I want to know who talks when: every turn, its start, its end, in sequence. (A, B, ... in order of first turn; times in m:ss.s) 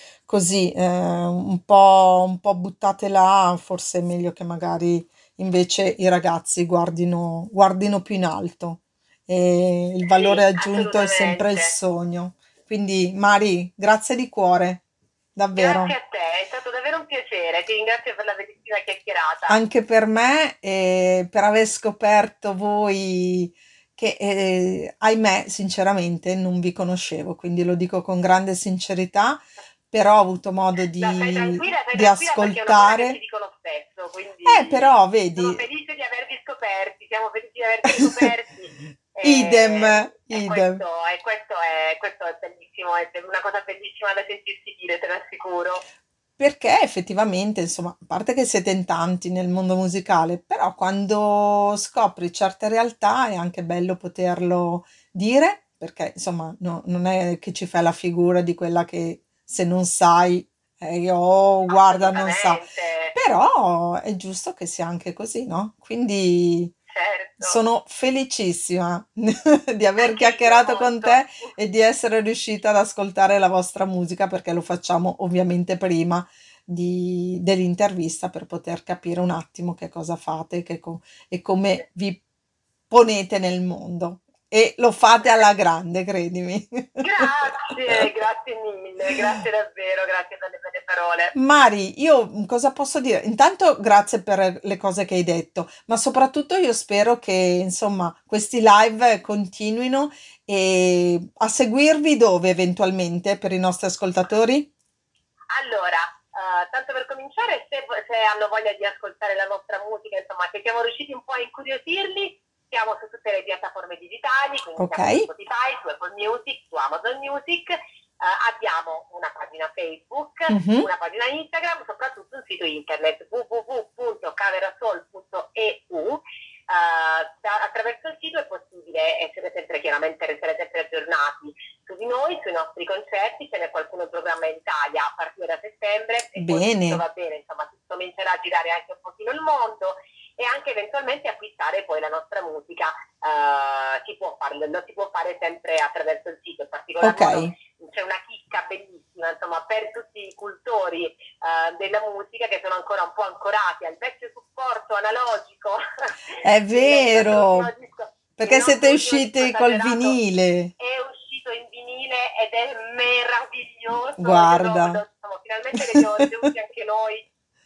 0:00.3-0:14.8 A
0:10.0-0:11.8 B
0:15.4-0:15.9 A
0:15.6-0:19.6 B
0:19.5-0:33.2 A
0:31.0-0:45.8 B
0:34.5-0:35.6 A
0:39.2-0:40.8 A
0:46.4-1:02.6 A
1:01.7-1:03.2 B
1:03.2-1:06.8 A
1:06.9-1:07.6 B
1:07.4-1:22.2 A
1:10.0-1:11.5 B
1:22.9-1:28.0 A
1:27.0-1:31.3 B
1:31.4-1:44.7 A
1:45.5-2:40.2 B
1:54.8-1:55.3 A
2:00.5-2:00.9 A
2:16.4-2:17.0 A
2:27.0-2:27.5 A
2:36.4-2:37.7 A
2:38.4-2:40.7 A
2:40.8-2:47.3 B
2:44.2-2:45.0 A